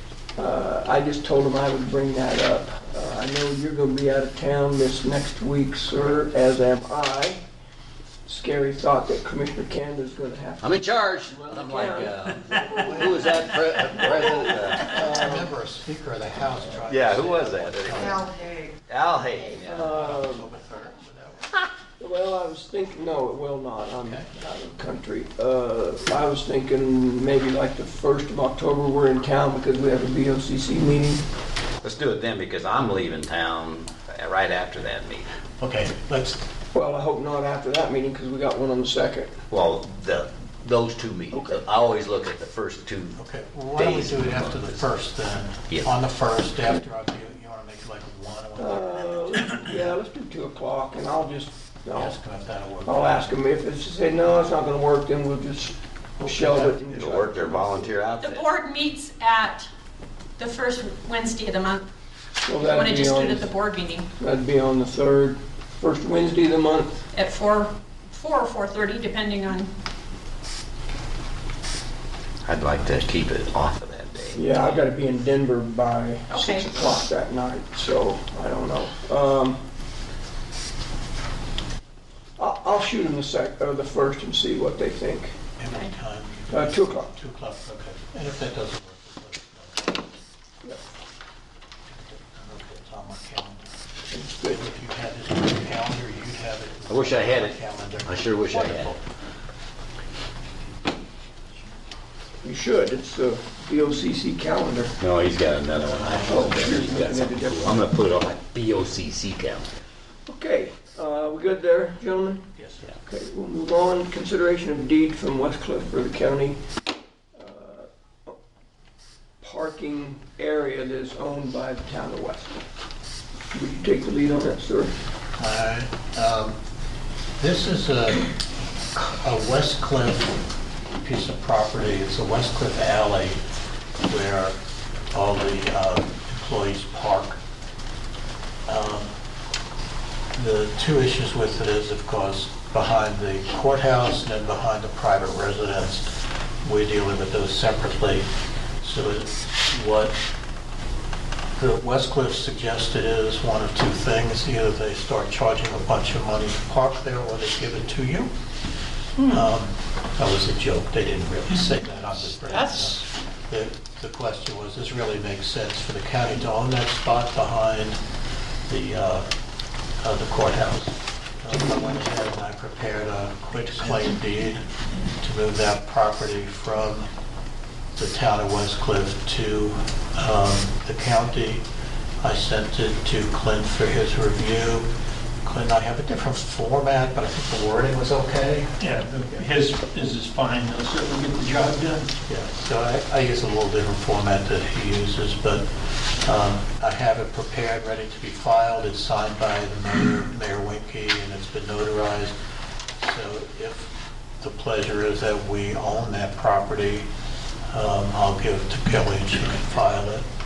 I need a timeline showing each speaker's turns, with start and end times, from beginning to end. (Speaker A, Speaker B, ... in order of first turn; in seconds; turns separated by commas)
Speaker A: 0.4-7.4, Speaker A: 8.2-10.8, Speaker B: 10.6-15.1, Speaker A: 11.3-13.2, Speaker C: 12.7-14.0, Speaker C: 14.7-18.3, Speaker A: 14.7-15.5, Speaker B: 16.9-19.9, Speaker A: 19.6-20.5, Speaker C: 19.7-21.6, Speaker A: 22.0-31.2, Speaker B: 31.8-35.3, Speaker C: 35.6-36.4, Speaker A: 36.7-39.4, Speaker B: 39.5-43.2, Speaker A: 41.3-41.6, Speaker C: 43.2-49.8, Speaker B: 43.7-44.9, Speaker A: 48.6-52.1, Speaker C: 51.9-53.3, Speaker A: 52.8-57.9, Speaker C: 56.2-57.0, Speaker B: 56.9-58.5, Speaker D: 58.2-59.7, Speaker D: 60.4-61.9, Speaker A: 62.4-63.5, Speaker D: 62.6-64.1, Speaker A: 64.2-66.9, Speaker D: 67.1-69.7, Speaker B: 72.4-74.6, Speaker A: 74.3-79.6, Speaker D: 76.3-76.7, Speaker A: 82.4-85.3, Speaker C: 85.6-90.0, Speaker A: 86.5-87.1, Speaker C: 91.9-93.7, Speaker A: 94.1-94.6, Speaker C: 94.5-99.0, Speaker B: 96.9-98.9, Speaker A: 102.4-105.0, Speaker B: 105.0-109.7, Speaker C: 105.8-106.7, Speaker A: 106.2-107.9, Speaker A: 110.2-112.5, Speaker C: 112.5-112.9, Speaker A: 113.0-116.6, Speaker A: 117.3-118.3, Speaker A: 119.4-122.6, Speaker A: 123.5-124.9, Speaker C: 125.4-126.5, Speaker C: 127.4-128.3, Speaker C: 128.9-133.4, Speaker C: 134.0-134.6, Speaker C: 135.1-137.4, Speaker C: 138.7-139.1, Speaker C: 140.3-146.1, Speaker C: 146.6-148.3, Speaker C: 148.8-150.1, Speaker C: 151.6-158.3, Speaker C: 159.2-168.0, Speaker D: 162.5-163.0, Speaker C: 168.7-169.3, Speaker C: 170.0-177.1, Speaker C: 177.9-181.6, Speaker C: 182.2-184.9, Speaker C: 185.4-188.7, Speaker E: 188.8-192.2, Speaker C: 192.2-195.7, Speaker C: 196.2-202.3, Speaker C: 202.9-207.1, Speaker C: 207.7-210.2